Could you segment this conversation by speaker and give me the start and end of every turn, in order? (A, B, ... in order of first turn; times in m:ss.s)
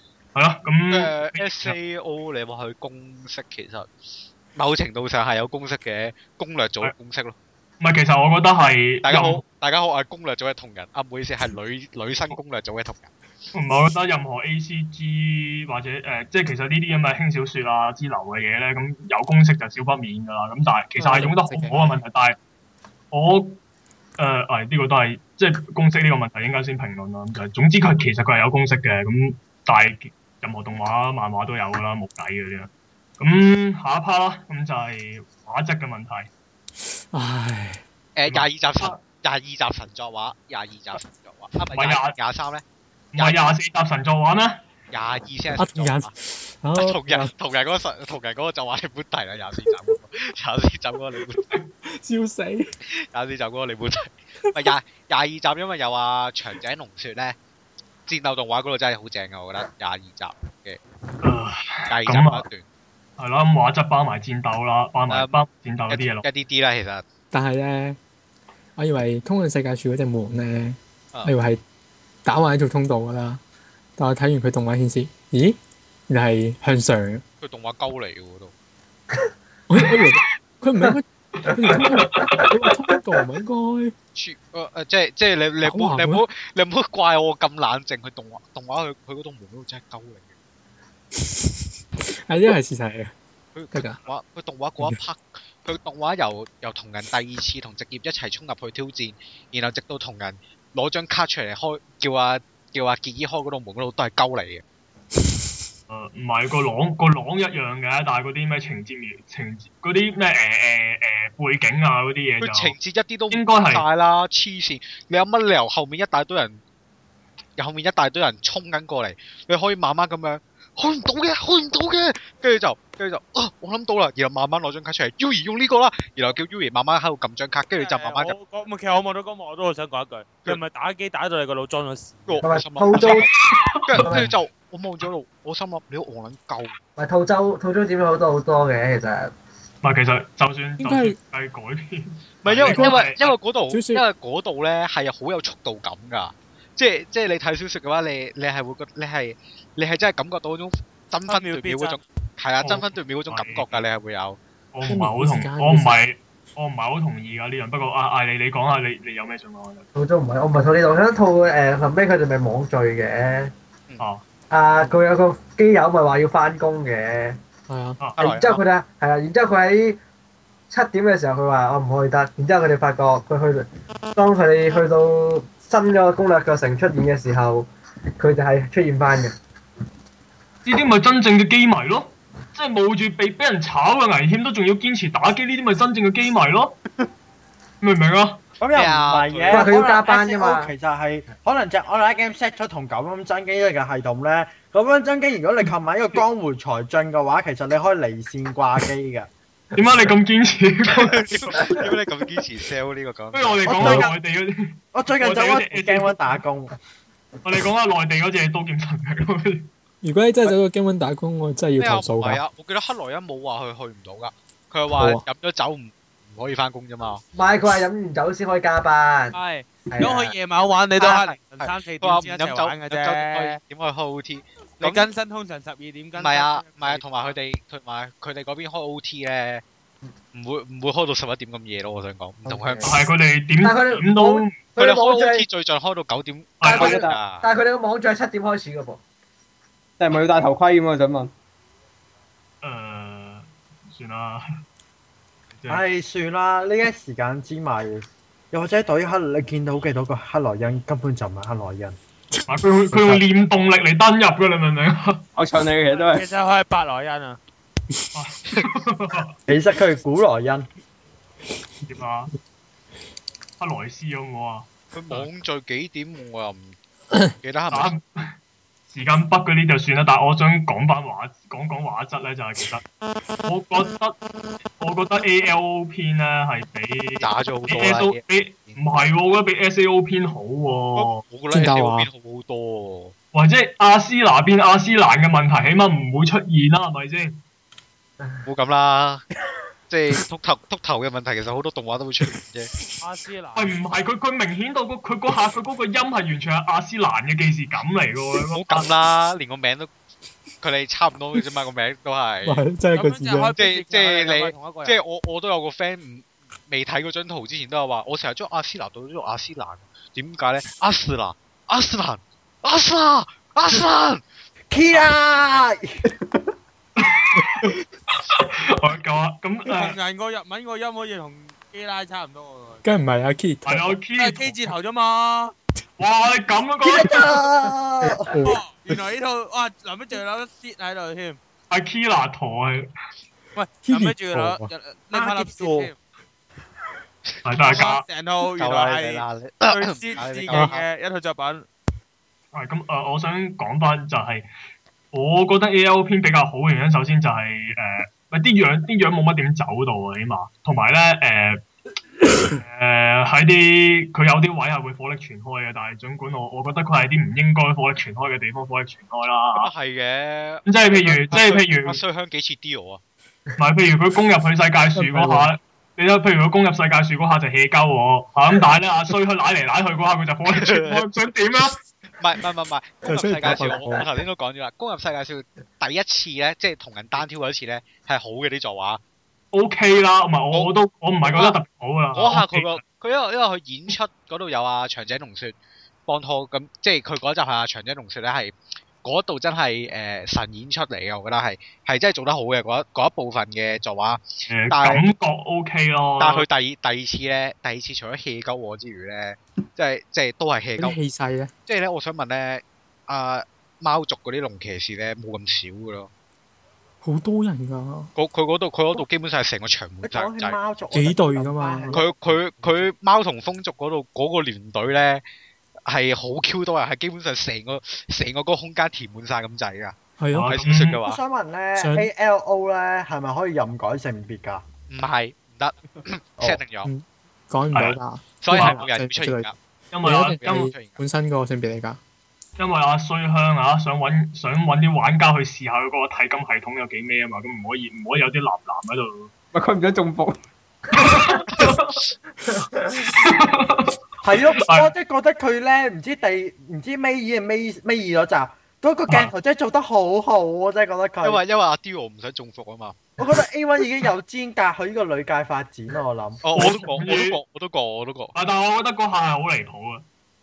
0:00.3-0:01.8 A
0:00.9-0:03.9 B
0:04.5-0:07.4 B
0:07.8-0:09.4 A
0:09.0-0:13.1 B
0:13.5-0:22.4 A
0:21.0-0:22.0 C
0:23.1-0:23.6 A
0:24.2-0:36.3 A
0:37.1-0:37.8 C
0:38.2-0:42.6 B
0:38.3-0:39.0 A
0:41.7-0:42.1 A
0:43.1-0:44.6 A
0:43.1-0:43.5 B
0:44.9-0:46.1 B
0:45.6-0:47.3 C
0:46.8-0:51.4 B
0:51.9-0:52.7 C
0:53.1-0:57.4 B
0:58.1-1:00.8 B
1:01.2-1:02.4 A
1:01.9-1:02.6 B
1:03.2-1:06.2 A
1:05.1-1:05.3 B
1:05.9-1:07.0 B
1:07.3-1:08.0 C
1:08.8-1:11.6 C
1:12.2-1:13.4 C
1:14.0-1:15.6 C
1:16.1-1:17.2 C
1:17.4-1:18.5 B
1:19.7-1:23.9 C
1:19.8-1:20.0 A
1:21.7-1:22.5 A
1:21.7-1:22.2 D
1:24.1-1:30.3 B
1:25.6-1:26.2 C
1:32.3-1:33.1 C
1:33.5-1:44.6 B
1:33.7-1:34.0 C
1:45.9-1:52.7 A
1:52.4-1:56.6 B
1:53.3-1:53.8 A
1:57.6-2:08.4 B
2:07.7-2:12.4 E
2:12.2-2:13.3 B
2:12.4-2:13.3 D
2:13.0-2:14.4 A
2:13.8-2:16.8 B
2:14.0-2:14.2 D
2:17.0-2:19.3 D
2:19.8-2:23.3 A
2:20.8-2:21.2 C
2:22.4-2:34.4 B
2:22.6-2:23.1 C
2:23.7-2:24.0 C
2:31.3-2:32.0 E
2:32.6-2:33.8 A
2:34.7-2:39.9 A
2:34.8-2:36.0 C
2:39.9-2:43.5 D
2:44.5-2:47.4 D
2:47.7-2:48.1 C
2:48.2-2:48.6 B
2:48.2-2:50.0 D
2:50.7-2:57.7 D
2:58.2-2:59.3 D
3:00.6-3:06.8 A
3:07.8-3:08.4 A
3:08.6-3:19.3 F
3:08.7-3:09.7 B
3:09.5-3:10.7 D
3:19.7-3:21.6 A
3:20.9-3:24.0 B
3:23.3-3:26.4 A
3:23.6-3:24.1 F
3:24.9-3:26.7 F
3:27.4-3:29.7 A
3:30.0-3:32.4 C
3:31.8-3:37.2 B
3:35.0-3:35.2 C
3:37.3-3:39.4 D
3:39.3-3:43.6 E
3:39.9-3:40.3 D
3:41.0-3:45.1 B
3:44.8-3:47.4 E
3:46.1-3:49.6 B
3:50.3-3:53.0 B
3:52.5-3:52.9 D
3:52.8-3:54.6 A
3:53.6-3:55.5 D
3:54.8-3:57.4 B
3:56.6-3:57.0 A
3:56.6-3:59.0 D
3:56.7-3:57.2 G
4:00.0-4:01.3 G
4:02.6-4:04.4 A
4:05.5-4:05.8 A
4:05.7-4:12.0 F
4:12.4-4:13.2 C
4:12.5-4:15.2 A
4:15.4-4:16.2 G
4:15.9-4:17.4 E
4:18.1-4:19.3 A
4:19.5-4:20.7 F
4:21.8-4:22.3 A
4:23.6-4:25.3 A
4:24.9-4:26.8 B
4:27.4-4:27.9 B
4:27.7-4:28.3 A
4:28.9-4:32.8 A
4:33.4-4:34.2 A
4:34.8-4:41.2 A
4:37.2-4:38.8 B
4:41.0-4:43.1 B
4:41.5-4:42.1 C
4:43.3-4:47.4 A
4:48.4-4:49.2 B
4:49.9-4:52.7 B
4:53.0-4:53.7 E
4:53.6-4:58.9 A
4:58.5-4:59.9 B
5:00.6-5:02.6 B
5:02.4-5:03.5 C
5:02.9-5:05.0 E
5:03.6-5:14.2 B
5:14.7-5:15.9 F
5:17.0-5:20.0 A
5:19.7-5:22.8 E
5:22.8-5:24.0 C
5:23.6-5:24.6 A
5:24.2-5:25.5 E
5:26.0-5:27.4 A
5:26.8-5:28.4 F
5:28.0-5:28.3 D
5:28.3-5:28.6 C
5:28.4-5:31.4 E
5:31.7-5:32.9 A
5:33.6-5:36.0 E
5:33.8-5:34.7 C
5:35.1-5:35.9 F
5:37.3-5:37.8 B
5:37.4-5:38.0 A
5:37.6-5:41.7 E
5:38.4-5:40.8 B
5:42.5-5:44.5 A
5:45.1-5:51.6 A
5:52.6-5:59.7 A
5:59.5-6:03.0 B
6:00.6-6:02.0 A
6:03.6-6:11.8 A
6:05.0-6:05.5 C
6:10.5-6:11.1 B
6:12.2-6:19.0 B
6:13.0-6:14.0 C
6:19.5-6:22.8 A
6:20.5-6:21.6 B
6:22.1-6:35.1 B
6:34.5-6:36.4 A
6:36.2-6:41.0 B
6:40.8-6:41.5 C
6:41.6-6:46.1 B
6:47.0-6:48.1 C
6:48.1-6:50.6 B
6:50.0-6:52.9 F
6:50.9-6:52.0 C
6:51.9-6:55.2 B
6:55.8-7:01.2 B
7:00.2-7:00.6 C
7:00.3-7:01.0 A
7:01.0-7:04.6 F
7:01.8-7:02.1 C
7:04.9-7:06.9 B
7:06.8-7:09.5 C
7:07.7-7:08.0 A
7:08.4-7:09.6 B
7:08.5-7:08.8 A
7:09.9-7:10.7 A
7:10.0-7:12.0 C
7:10.4-7:11.0 B
7:12.6-7:19.3 A
7:19.5-7:20.4 G
7:20.9-7:22.0 A
7:21.5-7:21.8 B
7:22.5-7:23.1 D
7:23.1-7:23.9 A
7:24.2-7:31.4 F
7:24.6-7:24.9 A
7:31.2-7:33.0 B
7:33.2-7:36.4 F
7:36.4-7:38.3 B
7:36.5-7:37.4 A
7:38.3-7:40.0 A